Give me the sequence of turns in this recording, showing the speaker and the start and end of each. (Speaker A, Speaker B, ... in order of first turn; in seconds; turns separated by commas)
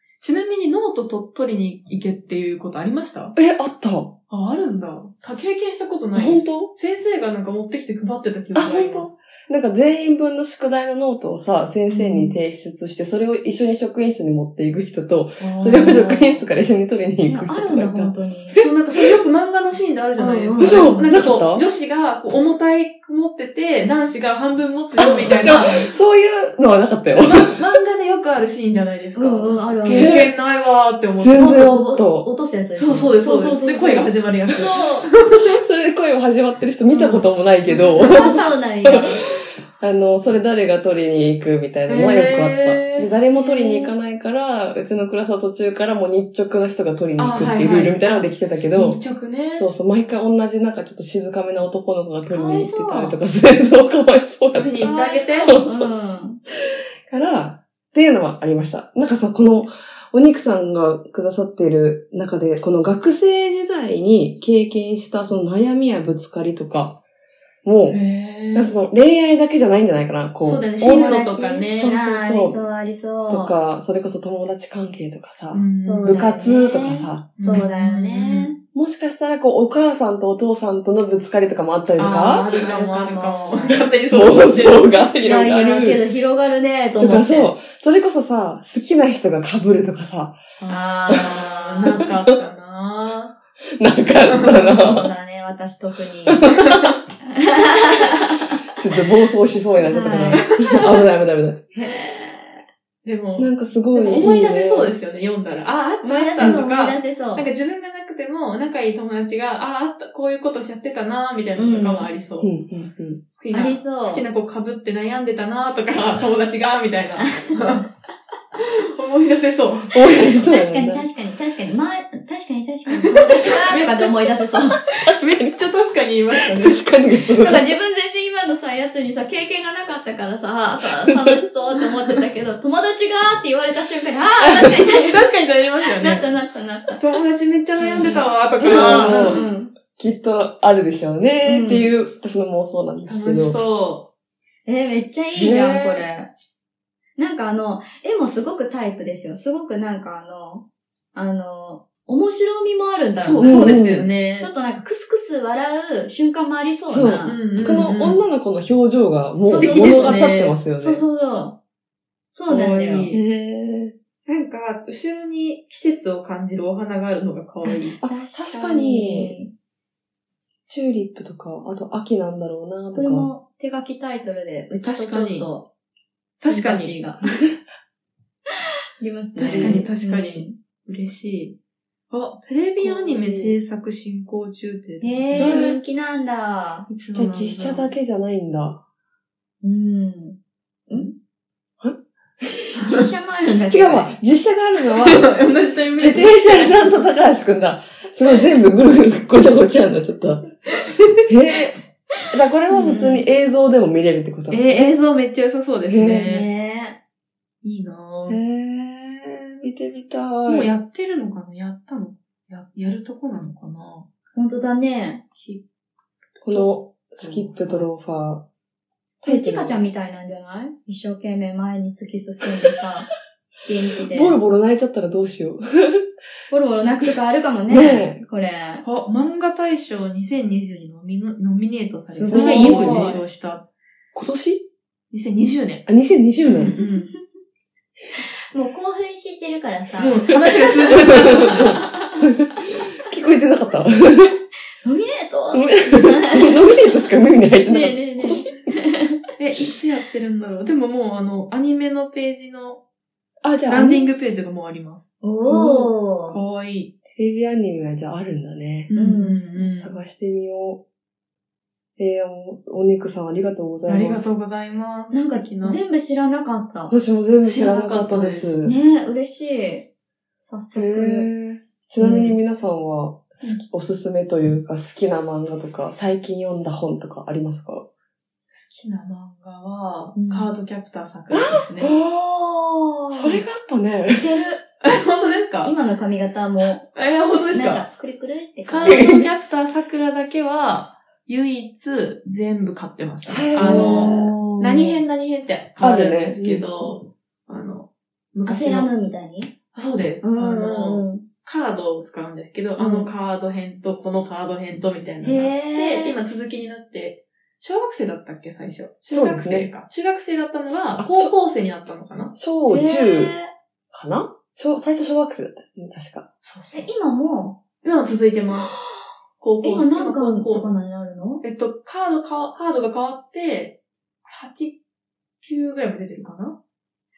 Speaker A: 0.2-3.4, Speaker B: 3.4-4.2, Speaker A: 4.3-9.1, Speaker B: 6.2-6.7, Speaker B: 8.6-19.1, Speaker A: 11.9-12.3, Speaker A: 15.4-16.5, Speaker C: 17.3-18.6, Speaker A: 18.6-25.9, Speaker C: 20.2-21.1, Speaker B: 20.6-21.7, Speaker C: 25.0-25.9, Speaker B: 25.4-27.6, Speaker A: 27.1-31.7, Speaker C: 29.2-30.2, Speaker B: 29.9-30.4, Speaker B: 31.2-32.3, Speaker C: 31.3-35.1, Speaker A: 32.8-35.6, Speaker B: 35.6-49.0, Speaker C: 36.9-37.2, Speaker A: 37.7-38.4, Speaker C: 38.0-39.3, Speaker A: 41.9-43.1, Speaker C: 43.4-43.9, Speaker A: 47.2-49.7, Speaker B: 49.5-55.9, Speaker C: 52.3-53.2, Speaker A: 54.5-55.5, Speaker C: 54.8-56.4, Speaker B: 57.1-67.0, Speaker B: 67.6-68.0, Speaker A: 67.9-68.7, Speaker B: 68.5-71.2, Speaker A: 70.4-71.9, Speaker C: 70.8-73.5, Speaker B: 71.7-72.6, Speaker B: 73.3-77.3, Speaker A: 75.5-76.2, Speaker C: 75.8-78.6, Speaker A: 77.4-78.5, Speaker B: 78.7-82.5, Speaker A: 82.0-84.9, Speaker C: 82.6-83.9, Speaker B: 84.1-86.0, Speaker C: 85.2-87.5, Speaker B: 87.0-90.4, Speaker A: 90.6-93.4, Speaker C: 90.7-91.9, Speaker B: 93.8-95.1, Speaker A: 94.3-94.6, Speaker C: 94.5-96.6, Speaker B: 96.3-96.8, Speaker A: 96.5-97.0, Speaker C: 97.3-98.6, Speaker B: 98.8-101.7, Speaker C: 99.8-100.6, Speaker C: 101.8-102.6, Speaker A: 103.0-112.5, Speaker B: 103.4-105.0, Speaker C: 106.0-107.5, Speaker B: 106.4-106.6, Speaker C: 111.6-112.1, Speaker B: 112.4-113.2, Speaker A: 113.3-117.9, Speaker C: 113.5-114.2, Speaker C: 117.2-117.5, Speaker A: 118.6-120.0, Speaker B: 119.9-121.0, Speaker C: 120.1-124.8, Speaker A: 122.9-124.2, Speaker A: 125.0-126.9, Speaker B: 125.0-125.6, Speaker B: 126.3-127.7, Speaker C: 127.3-135.2, Speaker B: 131.0-131.4, Speaker A: 134.8-136.3, Speaker C: 135.9-137.0, Speaker A: 137.0-139.5, Speaker C: 137.8-139.7, Speaker B: 138.6-139.4, Speaker B: 139.9-143.6, Speaker C: 141.5-141.9, Speaker A: 143.1-144.1, Speaker C: 144.7-146.3, Speaker B: 145.4-146.1, Speaker C: 147.2-153.8, Speaker A: 153.2-154.5, Speaker B: 153.4-154.1, Speaker C: 154.4-157.4, Speaker B: 156.9-161.0, Speaker A: 157.2-158.2, Speaker C: 159.4-161.6, Speaker A: 159.5-160.4, Speaker C: 162.3-163.1, Speaker A: 162.5-163.2, Speaker B: 163.1-163.9, Speaker A: 164.3-168.0, Speaker C: 167.6-169.5, Speaker B: 168.0-169.4, Speaker B: 170.7-173.3, Speaker C: 172.9-175.7, Speaker A: 174.8-175.5, Speaker C: 176.4-177.4, Speaker A: 176.4-177.1, Speaker C: 179.0-180.6, Speaker A: 179.4-181.6, Speaker B: 179.5-179.9, Speaker A: 182.1-185.8, Speaker B: 182.8-183.5, Speaker C: 185.0-186.9, Speaker B: 185.3-185.7, Speaker A: 186.9-187.9, Speaker B: 187.1-188.8, Speaker C: 189.6-190.4, Speaker B: 191.8-192.8, Speaker C: 192.8-194.2, Speaker B: 193.7-195.3, Speaker A: 194.9-196.9, Speaker B: 196.0-200.5, Speaker B: 201.3-201.8, Speaker B: 202.3-204.8, Speaker C: 202.7-203.2, Speaker A: 204.5-206.5, Speaker B: 205.9-206.3, Speaker C: 206.2-207.0, Speaker A: 207.6-208.4, Speaker B: 208.3-210.7, Speaker A: 210.4-214.1, Speaker C: 214.3-215.2, Speaker A: 215.4-215.6, Speaker B: 216.4-218.4, Speaker A: 216.4-217.9, Speaker B: 219.2-219.9, Speaker C: 219.2-223.1, Speaker C: 223.7-224.4, Speaker B: 224.1-226.1, Speaker C: 226.5-228.8, Speaker B: 227.7-228.2, Speaker A: 228.8-233.7, Speaker B: 232.1-233.2, Speaker C: 232.3-233.2, Speaker B: 234.1-234.7, Speaker A: 235.1-235.9, Speaker B: 235.9-236.8, Speaker A: 236.4-237.1, Speaker C: 236.8-237.2, Speaker C: 238.5-242.2, Speaker A: 240.0-241.8, Speaker B: 240.3-244.4, Speaker C: 244.8-246.9, Speaker B: 245.5-248.8, Speaker C: 247.7-249.2, Speaker A: 249.4-252.8, Speaker B: 253.4-254.1, Speaker A: 253.7-256.9, Speaker C: 255.2-256.4, Speaker B: 257.1-258.9, Speaker A: 258.9-260.0, Speaker C: 258.9-259.6, Speaker B: 259.8-260.8, Speaker B: 262.0-264.2, Speaker A: 263.9-265.8, Speaker C: 265.1-266.9, Speaker B: 266.9-268.8, Speaker A: 267.4-268.5, Speaker C: 268.6-269.9, Speaker C: 270.4-271.3, Speaker B: 270.7-277.9, Speaker A: 272.0-272.3, Speaker A: 278.5-282.0, Speaker C: 280.1-280.5, Speaker B: 281.3-284.4, Speaker C: 284.1-284.6, Speaker A: 284.8-285.7, Speaker C: 285.6-286.9, Speaker A: 286.9-287.9, Speaker C: 287.5-289.0, Speaker A: 288.7-298.9, Speaker B: 288.9-289.3, Speaker B: 293.3-294.4, Speaker C: 293.6-295.0, Speaker B: 295.8-296.9, Speaker C: 298.5-299.5, Speaker A: 299.7-312.4, Speaker C: 300.2-301.2, Speaker C: 302.8-303.1, Speaker C: 305.2-306.2, Speaker B: 309.1-309.7, Speaker B: 311.0-311.3, Speaker B: 312.4-313.3, Speaker C: 312.7-313.5, Speaker B: 313.9-316.3, Speaker A: 316.4-316.9, Speaker C: 316.7-317.6, Speaker A: 317.8-318.7, Speaker C: 318.6-319.1, Speaker A: 319.4-320.7, Speaker C: 319.6-321.4, Speaker A: 321.4-324.8, Speaker A: 325.4-326.6